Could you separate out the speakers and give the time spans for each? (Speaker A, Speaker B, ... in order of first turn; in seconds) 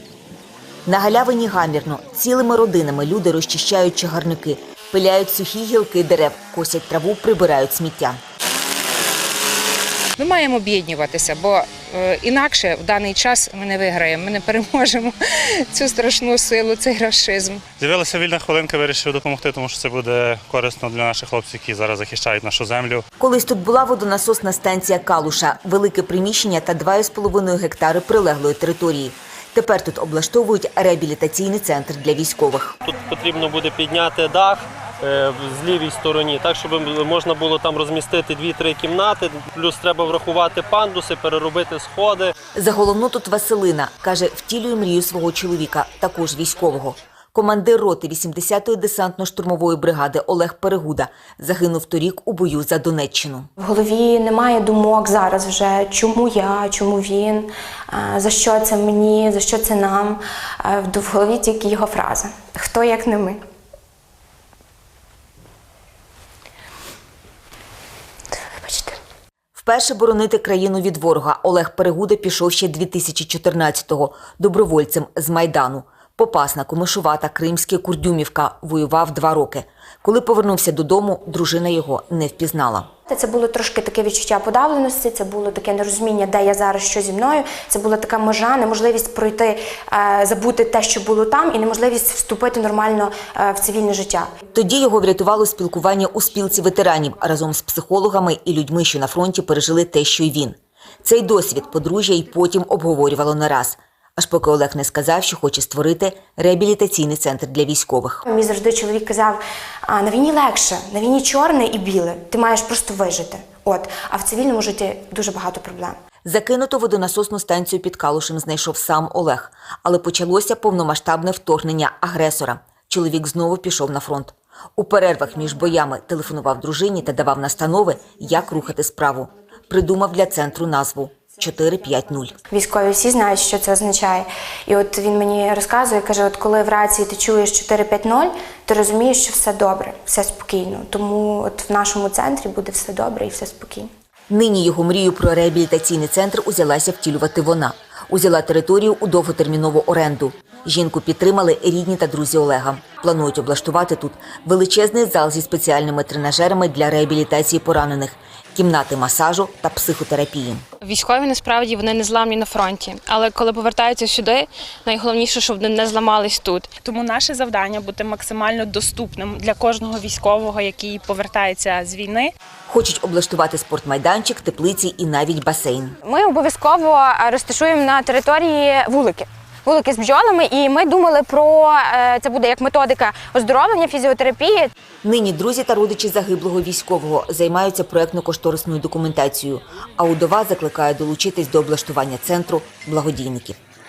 Speaker A: 0.9-8.2, 23.2-32.8, 42.5-53.5, 69.5-82.9, 94.5-108.2, 116.2-132.4, 144.3-160.7, 172.7-176.0, 185.0-193.6
Speaker B: 10.2-17.6
Speaker C: 17.8-23.0
Speaker D: 32.9-42.3
Speaker E: 53.6-63.4, 68.4-69.0, 83.1-94.3, 108.2-116.0, 132.5-143.9, 176.0-184.7
Speaker F: 160.8-166.7
Speaker G: 166.8-172.3